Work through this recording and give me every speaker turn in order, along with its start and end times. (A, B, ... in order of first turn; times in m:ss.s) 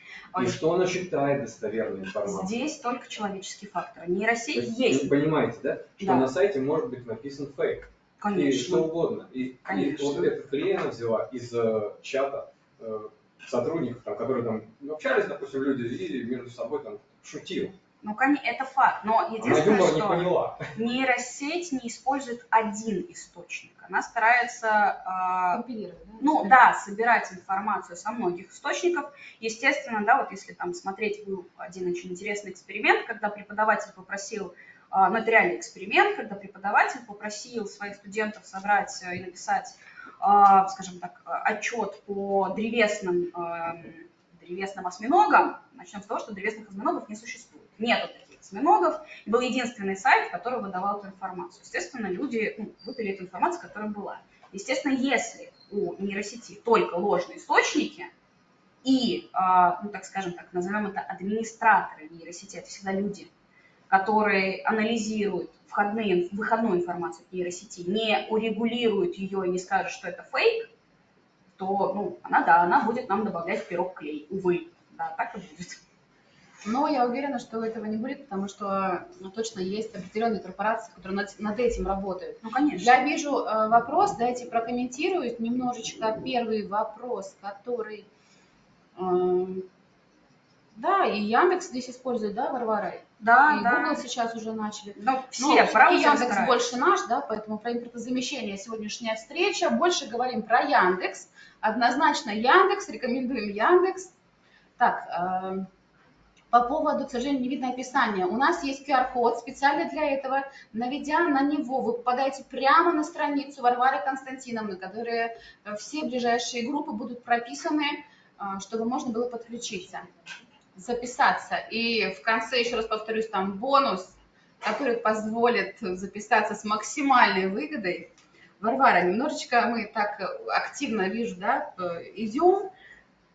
0:00.4-0:02.7 A
0:02.3-0:05.2 B
0:04.6-0:17.8 A
0:06.0-0:06.3 B
0:08.2-0:08.9 B
0:09.6-0:10.3 B
0:18.0-0:25.6 B
0:19.4-0:20.7 A
0:25.5-0:26.6 C
0:26.2-0:58.1 B
0:58.8-1:03.3 B
1:03.9-1:10.7 B
1:11.6-1:15.8 B
1:16.6-1:28.1 C
1:22.4-1:23.0 B
1:29.0-1:29.7 C
1:30.7-1:44.1 C
1:33.2-1:34.0 B
1:35.0-1:36.8 B
1:44.8-1:45.7 C
1:46.5-2:00.1 C
2:00.8-2:12.7 C